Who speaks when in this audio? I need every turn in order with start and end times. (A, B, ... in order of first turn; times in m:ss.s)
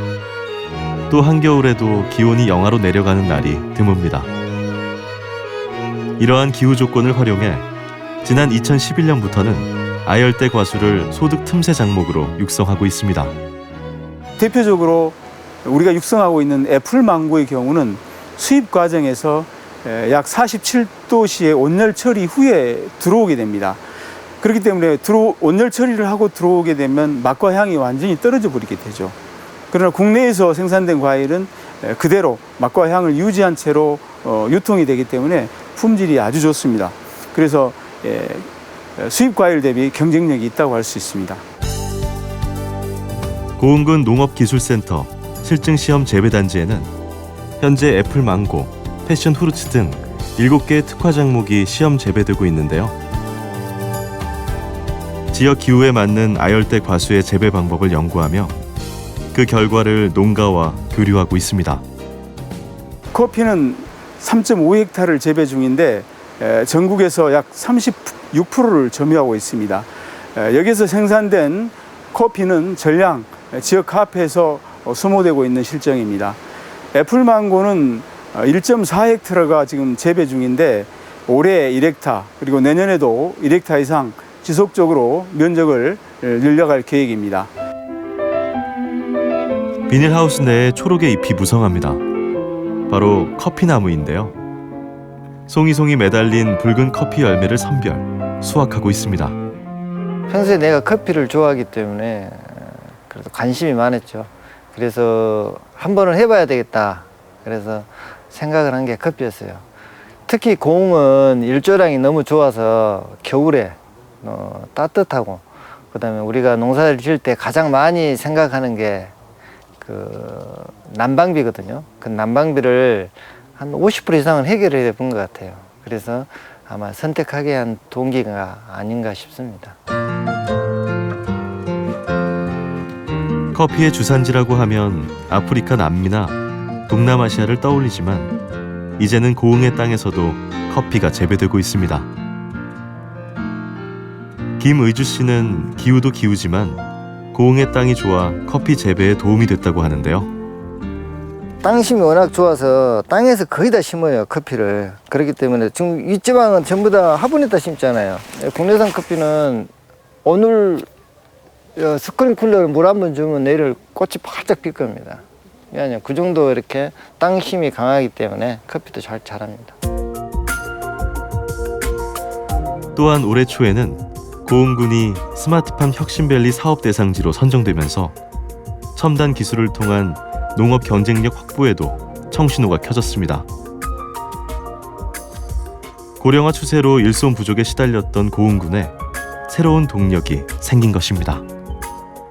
0:01.1-0:04.3 A
0:06.2-0:07.7 A
0:08.2-0:13.4 A
0:14.4-0:23.8 B
0:24.4-0:29.2 B
0:29.7-0:41.4 B
0:43.6-0:46.9 A
0:47.6-0:53.0 A
0:55.3-0:58.6 A
0:59.3-1:01.8 A
1:03.1-1:16.4 B
1:16.9-1:27.5 B
1:29.9-1:32.0 A
1:32.9-1:34.4 A
1:35.5-1:39.4 A
1:40.3-1:49.6 C
1:50.3-1:59.1 C
1:59.8-2:09.8 C
2:13.5-2:18.3 A
2:19.0-2:22.1 A
2:24.6-2:30.3 A
2:31.6-2:39.7 C
2:40.2-2:40.9 C
2:41.8-2:49.8 C
2:53.0-2:58.2 A
2:59.0-3:03.5 A
3:06.2-3:08.9 A
3:09.5-3:11.4 A